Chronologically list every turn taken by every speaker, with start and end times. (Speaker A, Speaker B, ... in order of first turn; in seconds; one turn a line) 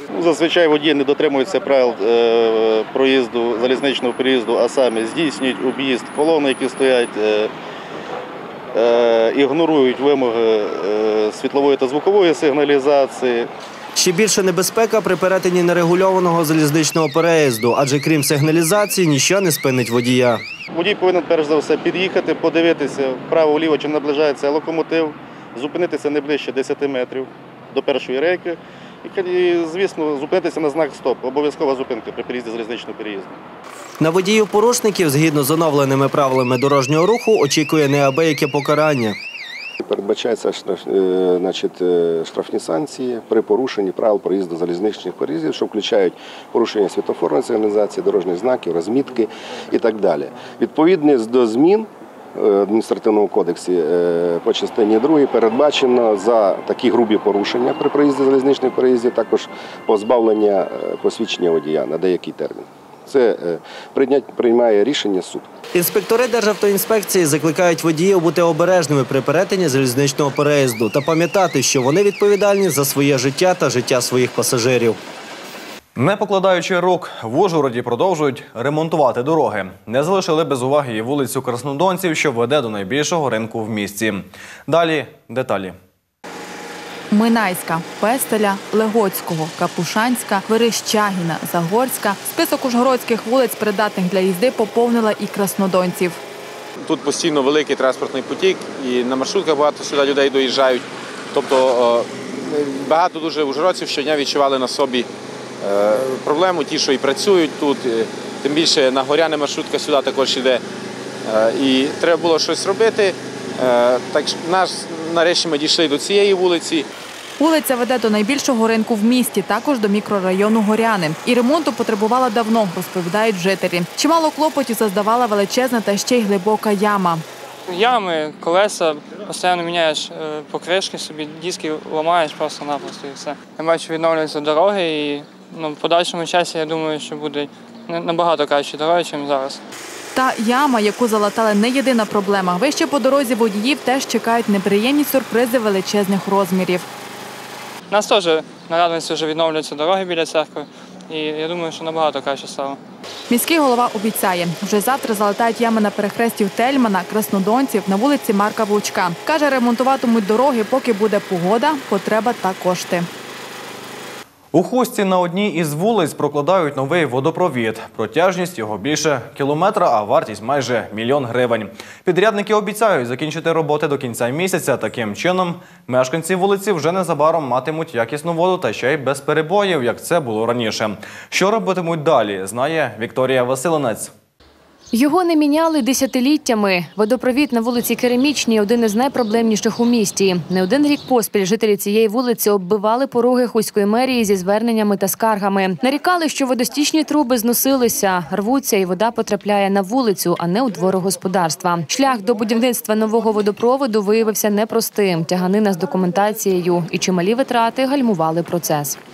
Speaker A: 0.1-7.5
Speaker A: 8.7-13.5
Speaker B: 14.0-20.4
Speaker A: 20.7-33.3
Speaker B: 34.0-39.2
Speaker C: 39.8-65.5
Speaker B: 65.7-75.0
Speaker D: 76.0-85.8
Speaker E: 87.1-96.2
Speaker F: 96.8-105.1
Speaker F: 105.6-110.6
Speaker F: 111.2-116.9
Speaker E: 117.4-127.2
Speaker G: 127.7-139.6
Speaker E: 140.2-146.9
Speaker G: 147.9-152.8
Speaker E: 153.3-163.1
Speaker D: 164.5-184.1
Speaker H: 184.9-209.0